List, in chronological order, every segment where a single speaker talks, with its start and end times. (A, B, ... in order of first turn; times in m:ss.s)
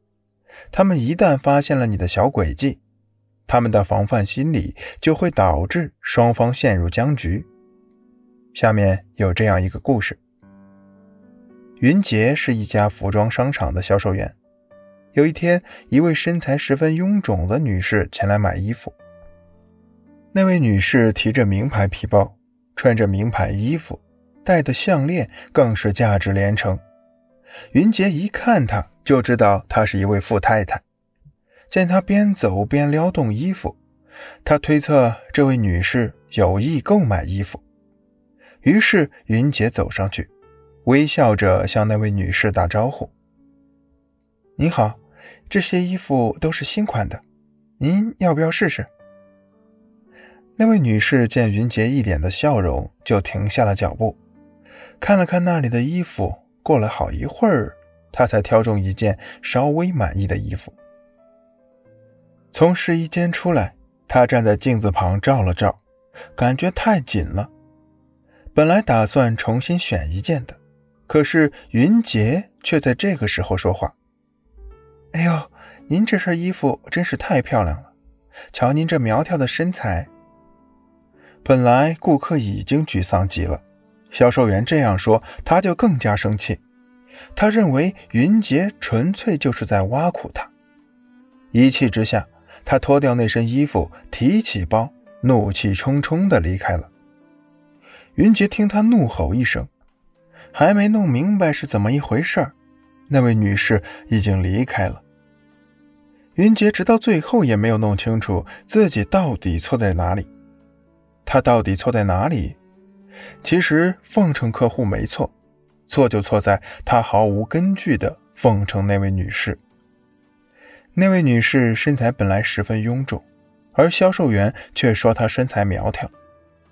0:00.7-0:02.8 A
0:03.5-0:07.5 A
0:08.5-0:10.2 A
0:11.8-0:14.4 A
0:15.1-0:19.0 A
0:20.3-0:26.8 A
0:27.7-0:30.8 A
0:31.7-0:33.8 A
0:34.4-0:37.6 A
0:38.6-0:40.3 A
0:40.8-0:43.1 A
0:44.6-0:47.2 A
0:47.8-0:48.9 A
0:50.6-0:54.2 A
0:55.0-1:00.8 A
1:02.5-1:05.8 A
1:06.4-1:07.5 A
1:08.5-1:14.0 A
1:15.1-1:17.9 A
1:18.5-1:20.1 A
1:21.4-1:26.6 A
1:27.4-1:30.5 A
1:31.5-1:36.9 A
1:38.2-1:39.7 A
1:40.5-1:42.6 A
1:43.1-1:45.0 A
1:46.4-1:50.3 A
1:51.2-1:52.6 A
1:53.4-1:55.3 A
1:55.9-1:59.6 A
2:01.0-2:06.1 A